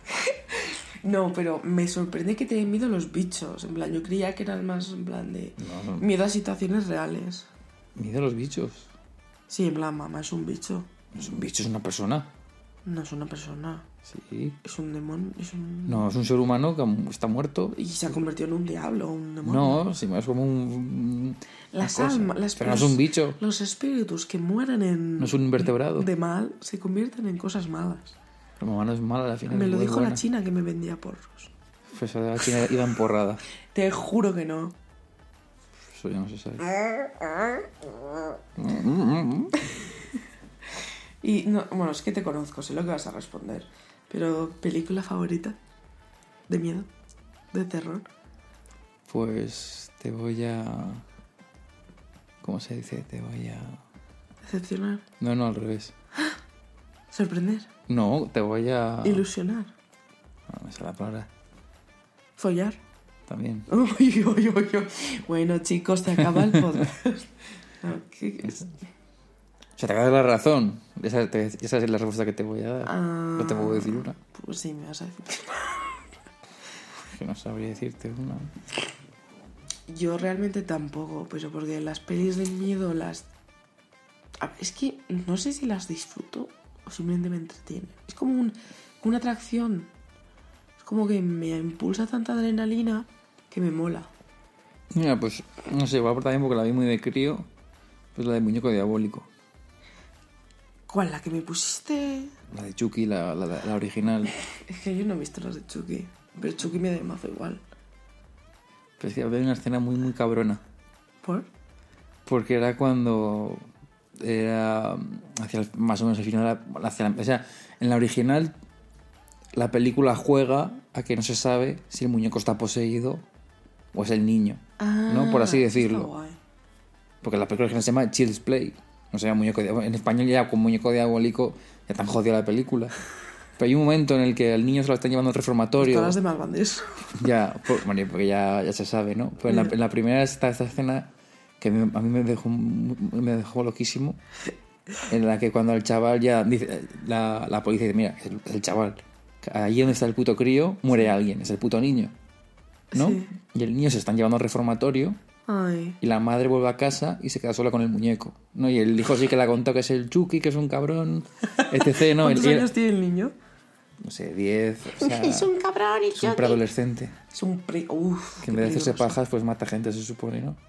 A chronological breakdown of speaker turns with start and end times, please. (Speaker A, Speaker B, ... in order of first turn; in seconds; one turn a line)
Speaker A: 0.2-7.5
Speaker B: 5.6-6.1
Speaker B: 8.0-8.9
Speaker A: 9.5-10.9
Speaker B: 11.1-12.3
Speaker A: 12.8-13.8
Speaker B: 14.1-14.6
Speaker A: 14.6-16.1
Speaker B: 15.9-17.8
Speaker A: 17.8-19.8
Speaker B: 19.4-23.4
Speaker A: 21.7-28.2
Speaker B: 25.2-26.1
Speaker B: 28.6-30.2
Speaker A: 29.5-31.5
Speaker B: 31.9-33.4
Speaker A: 33.7-34.7
Speaker B: 35.9-36.7
Speaker A: 37.2-37.6
Speaker B: 38.6-39.7
Speaker A: 41.2-45.6
Speaker A: 46.5-46.9
Speaker A: 47.5-48.1
Speaker B: 49.1-51.0
Speaker B: 52.4-53.8
Speaker A: 54.5-55.0
Speaker B: 55.2-55.9
Speaker A: 57.1-57.7
Speaker B: 57.9-59.3
Speaker A: 59.0-59.7
Speaker B: 60.5-61.3
Speaker A: 62.4-62.8
Speaker B: 63.3-63.7
Speaker A: 63.7-67.3
Speaker B: 66.3-66.7
Speaker A: 67.8-68.8
Speaker B: 69.8-74.2
Speaker A: 72.8-76.1
Speaker B: 77.1-78.5
Speaker A: 79.9-83.3
Speaker A: 84.4-89.9
Speaker A: 90.8-94.1
Speaker B: 94.9-97.5
Speaker B: 98.1-99.3
Speaker A: 100.9-102.3
Speaker B: 102.5-104.3
Speaker A: 104.7-107.6
Speaker B: 109.0-110.6
Speaker B: 112.2-113.6
Speaker B: 114.2-118.5
Speaker B: 119.5-123.2
Speaker B: 123.9-126.1
Speaker A: 124.8-126.4
Speaker B: 127.2-132.9
Speaker B: 133.6-136.2
Speaker A: 135.8-137.1
Speaker B: 137.2-144.2
Speaker A: 139.5-139.7
Speaker B: 145.1-152.1
Speaker A: 152.9-153.3
Speaker B: 152.9-155.2
Speaker A: 155.5-156.0
Speaker B: 156.0-162.7
Speaker A: 161.6-163.3
Speaker B: 164.0-165.5
Speaker A: 165.0-166.6
Speaker B: 166.2-167.1
Speaker A: 167.3-169.2
Speaker B: 168.4-170.6